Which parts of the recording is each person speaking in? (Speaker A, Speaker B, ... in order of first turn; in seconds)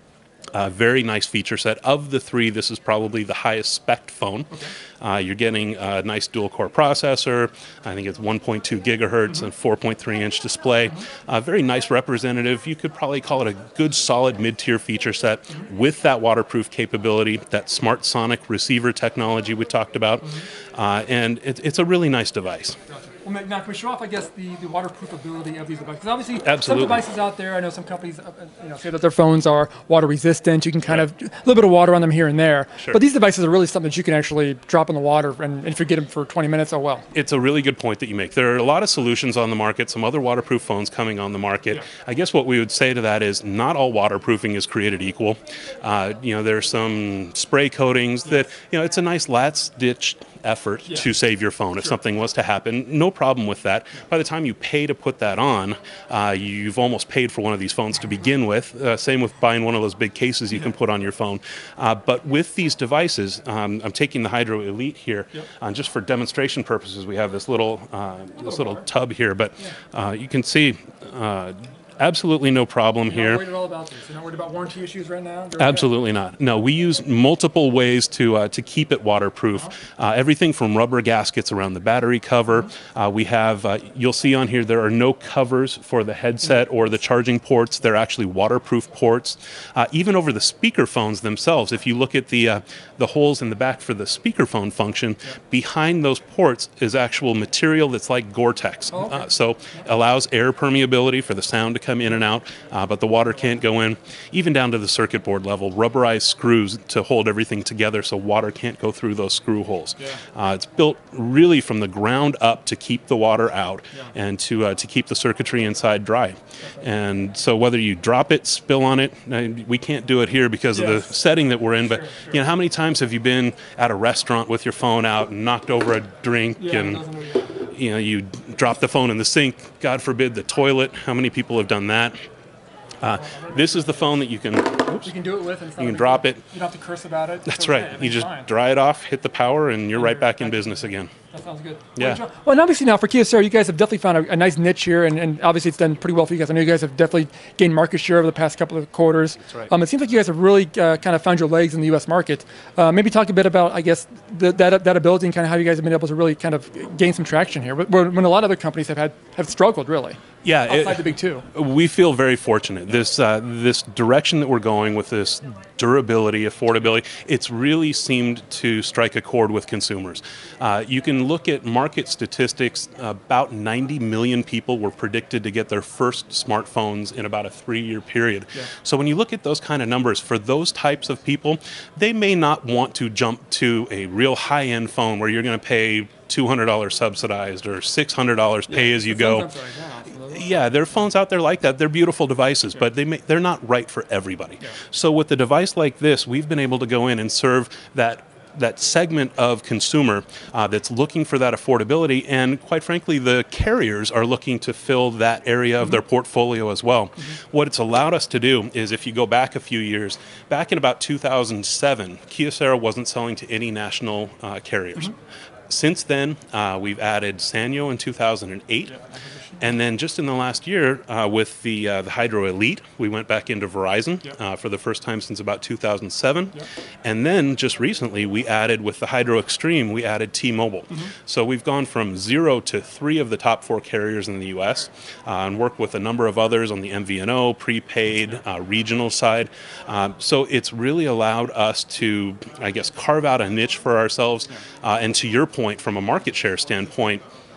Speaker A: 0.5-22.8, 26.4-27.0, 37.1-73.4, 75.6-127.0, 127.6-132.2, 133.0-135.1, 135.8-136.4, 137.5-141.1, 160.4-189.5, 190.3-215.1, 215.7-218.9, 219.6-247.2
Speaker B: 22.9-37.0, 68.5-68.8, 73.0-75.9, 98.9-99.2, 120.7-121.1, 122.0-122.4, 126.6-127.5, 133.1-134.0, 135.0-138.5, 139.9-161.4, 188.7-190.5, 219.0-219.6